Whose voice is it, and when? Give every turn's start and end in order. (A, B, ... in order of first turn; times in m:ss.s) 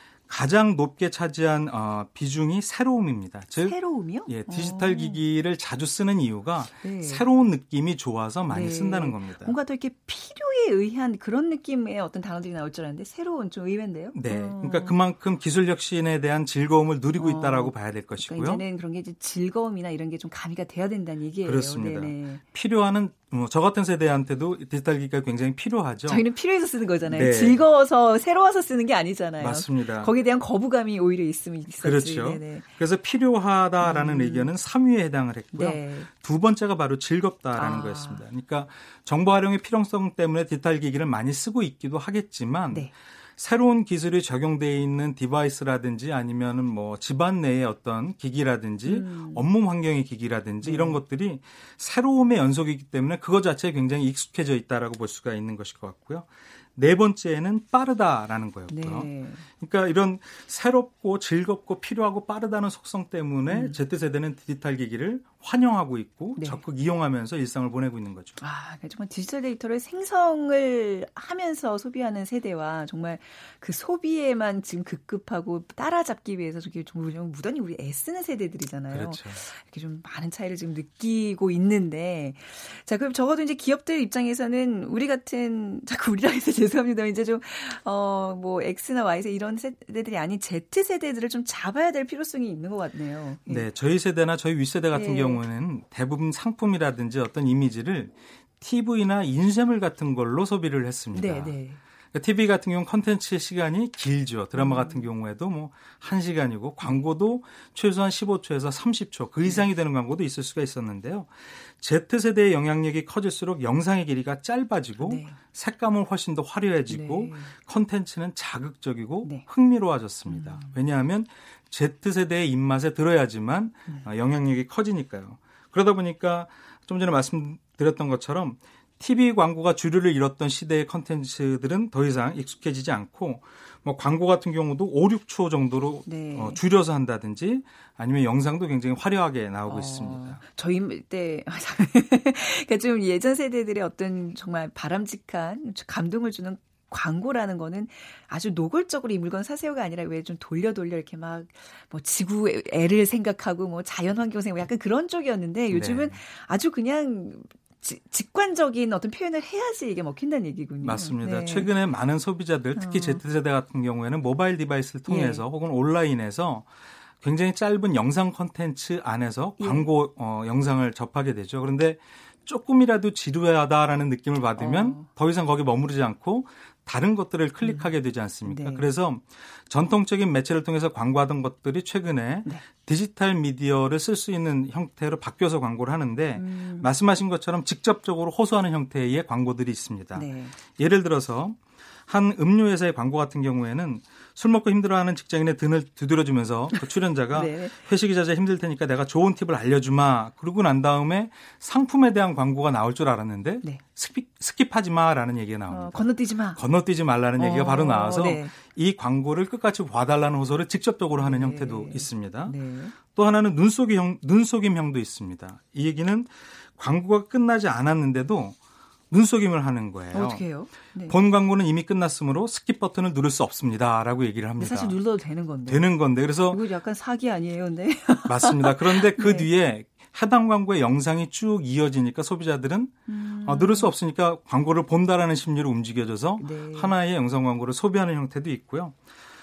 0:00.3-0:09.6 A
0:03.6-0:05.2 B
0:06.8-0:07.2 B
0:08.5-0:15.0 B
0:14.1-0:18.6 A
0:17.2-0:22.4 B
0:21.4-0:26.3 A
0:26.1-0:32.7 B
0:27.1-0:27.6 A
0:29.4-0:30.1 A
0:31.8-1:08.4 A
0:33.8-0:34.5 B
0:35.5-0:36.1 B
0:37.5-0:38.2 B
0:48.8-0:49.4 B
0:50.6-0:51.0 B
0:58.7-0:59.4 B
1:03.5-1:03.8 B
1:06.4-1:06.6 B
1:08.4-1:33.6 B
1:18.9-1:19.4 A
1:33.5-1:41.5 A
1:34.9-1:35.4 B
1:41.1-1:41.8 B
1:42.1-2:20.4 A
1:44.5-1:45.1 B
1:55.0-1:55.4 B
1:56.9-1:57.5 B
2:00.3-2:00.7 B
2:16.0-2:16.6 B
2:19.6-2:41.7 B
2:35.7-2:36.2 A
2:40.8-2:46.7 A
2:42.8-2:43.2 B
2:45.1-2:45.4 B
2:47.2-3:38.6 A
2:49.6-2:49.9 B
2:54.6-2:55.1 B
2:57.6-2:57.9 B
2:58.4-2:58.9 B
3:06.3-3:06.9 B
3:10.1-3:10.6 B
3:16.7-3:17.8 B
3:25.7-3:26.6 B
3:27.4-3:28.5 B
3:31.1-3:32.9 B
3:39.1-3:40.4 A
3:40.1-3:41.1 B
3:41.1-3:45.0 A
3:44.6-3:45.9 B
3:45.6-3:46.6 A
3:46.5-3:49.5 B
3:48.2-3:59.0 A
3:53.1-3:53.9 B
3:56.4-3:56.9 B